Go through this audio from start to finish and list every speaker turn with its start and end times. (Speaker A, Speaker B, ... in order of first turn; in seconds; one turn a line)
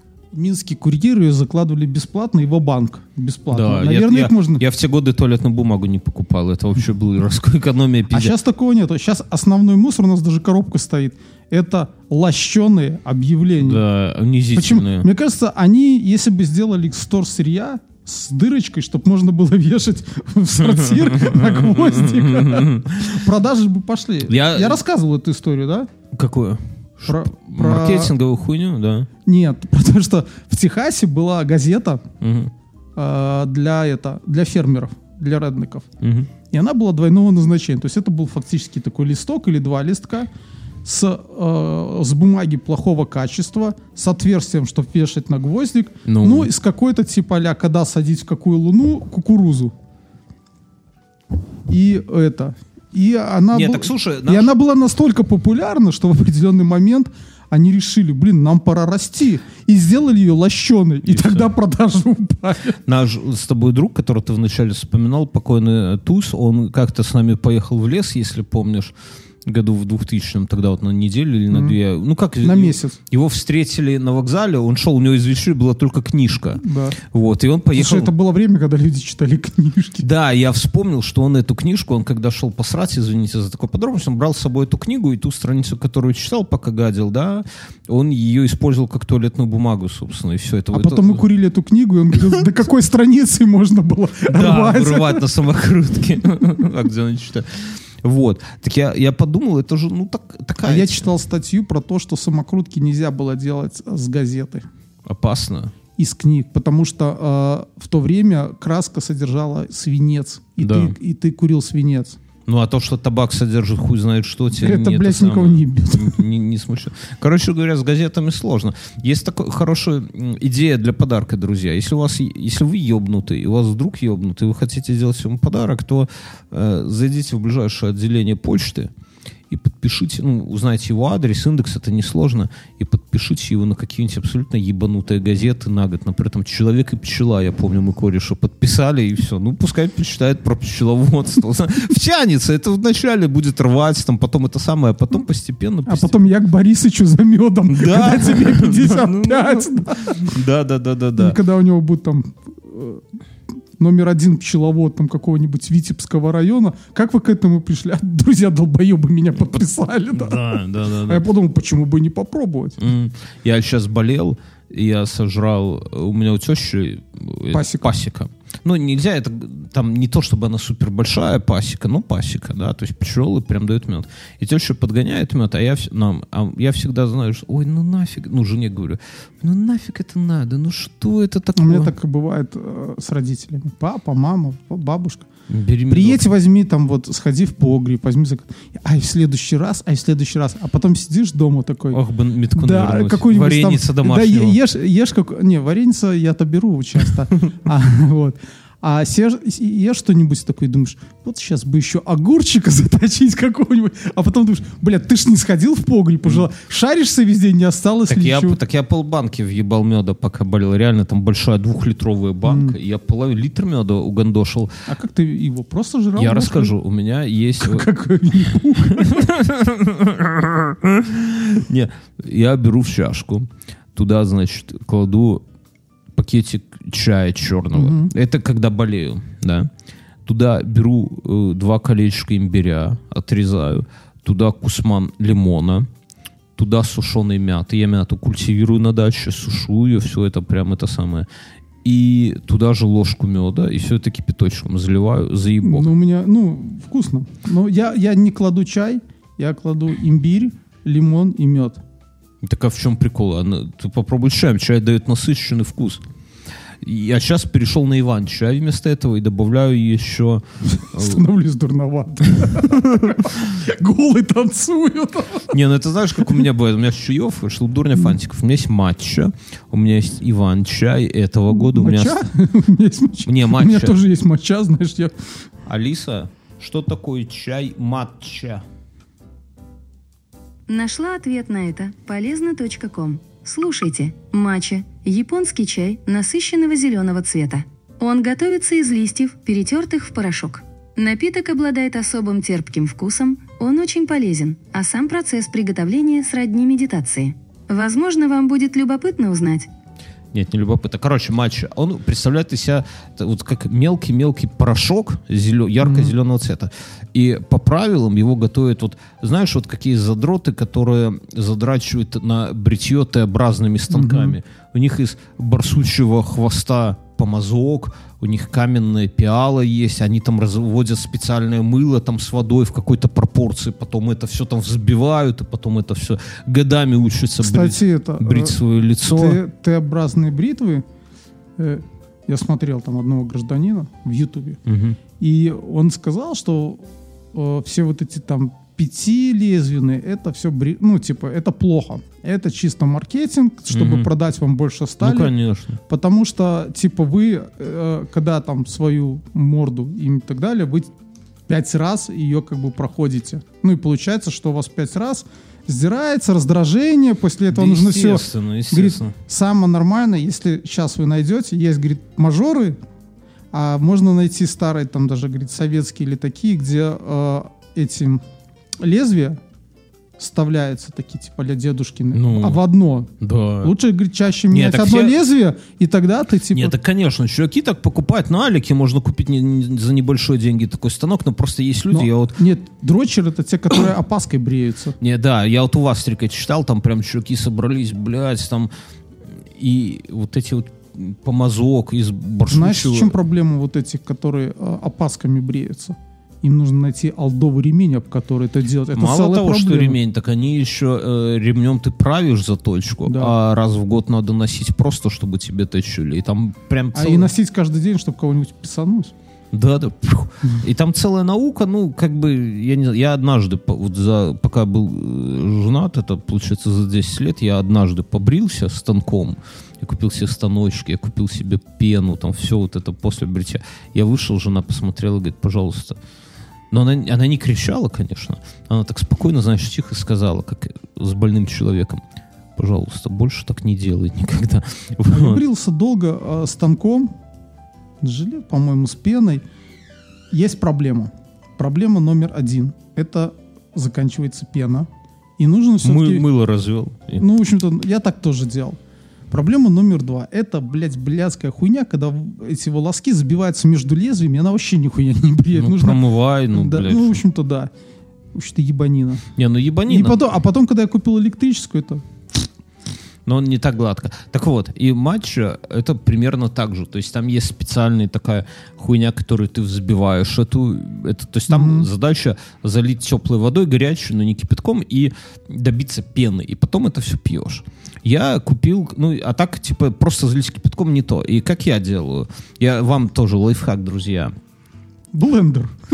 Speaker A: 0.3-4.6
Speaker B: 3.5-8.3
Speaker A: 8.1-13.8
Speaker B: 13.6-15.1
Speaker A: 14.5-25.9
Speaker B: 20.6-23.2
Speaker B: 24.3-24.8
Speaker B: 26.1-29.1
Speaker A: 27.1-28.1
Speaker A: 29.2-32.0
Speaker B: 32.2-32.5
Speaker A: 33.0-35.9
Speaker B: 36.0-36.3
Speaker A: 36.5-40.3
Speaker A: 40.8-49.7
Speaker B: 46.0-46.5
Speaker A: 51.7-62.8
Speaker B: 53.5-54.5
Speaker B: 61.0-61.5
Speaker B: 62.9-78.1
Speaker A: 71.5-71.8
Speaker A: 72.4-73.0
Speaker A: 76.6-77.0
Speaker A: 77.7-80.1
Speaker B: 80.0-91.2
Speaker A: 90.7-95.2
Speaker B: 94.3-101.1
Speaker A: 100.6-104.7
Speaker B: 105.0-105.7
Speaker A: 106.0-112.2
Speaker B: 110.6-110.9
Speaker B: 112.5-128.9
Speaker A: 114.5-116.2
Speaker B: 129.5-146.2
Speaker A: 145.8-150.3
Speaker B: 147.7-151.4
Speaker A: 151.2-153.0
Speaker A: 153.8-162.8
Speaker B: 160.1-161.2
Speaker B: 162.8-181.9
Speaker A: 167.5-167.9
Speaker A: 181.6-185.3
Speaker B: 185.5-186.2
Speaker A: 185.9-192.0
Speaker B: 191.9-194.6
Speaker A: 192.6-208.6
Speaker B: 208.1-214.7
Speaker A: 212.4-212.7
Speaker A: 214.8-216.7
Speaker B: 216.2-217.9
Speaker A: 217.6-219.3
Speaker B: 218.5-225.4
Speaker B: 226.1-229.7
Speaker A: 227.7-228.1
Speaker B: 230.2-235.9
Speaker B: 236.6-241.3
Speaker B: 241.8-245.9
Speaker A: 245.6-251.8
Speaker B: 252.4-256.0
Speaker B: 256.8-261.2
Speaker A: 260.7-265.5
Speaker B: 262.4-263.1
Speaker B: 265.5-272.2
Speaker A: 271.5-275.1
Speaker B: 273.2-274.0
Speaker B: 275.6-278.6
Speaker C: 280.7-299.7
Speaker B: 300.3-329.4
Speaker A: 305.8-306.1
Speaker A: 313.9-314.4
Speaker A: 327.4-328.6
Speaker A: 329.1-330.8
Speaker A: 331.6-334.6
Speaker B: 334.6-335.0
Speaker A: 335.2-336.8
Speaker A: 337.3-345.3
Speaker B: 343.7-344.1
Speaker B: 345.0-345.8
Speaker A: 345.9-350.9
Speaker A: 351.5-362.8
Speaker B: 357.5-359.1
Speaker A: 363.5-368.2
Speaker A: 368.8-369.4
Speaker A: 370.2-373.1
Speaker B: 372.1-372.6
Speaker B: 373.2-373.7
Speaker A: 373.6-376.8
Speaker B: 374.5-375.2
Speaker B: 376.5-382.4
Speaker A: 381.9-385.0
Speaker B: 385.0-388.7
Speaker B: 389.6-393.1
Speaker A: 392.4-400.0
Speaker B: 398.9-407.3
Speaker A: 403.1-403.3
Speaker A: 406.9-409.1
Speaker B: 409.5-426.0
Speaker B: 426.7-432.0
Speaker B: 432.6-435.4
Speaker A: 435.1-437.1
Speaker A: 438.0-439.4
Speaker A: 440.3-444.9
Speaker A: 445.4-446.2
Speaker B: 445.8-447.2
Speaker A: 447.2-448.8
Speaker A: 449.3-457.7
Speaker B: 455.5-457.2
Speaker A: 458.3-459.2
Speaker B: 459.4-460.2
Speaker A: 459.9-462.0
Speaker B: 463.2-484.3
Speaker A: 471.5-471.9
Speaker A: 485.1-485.8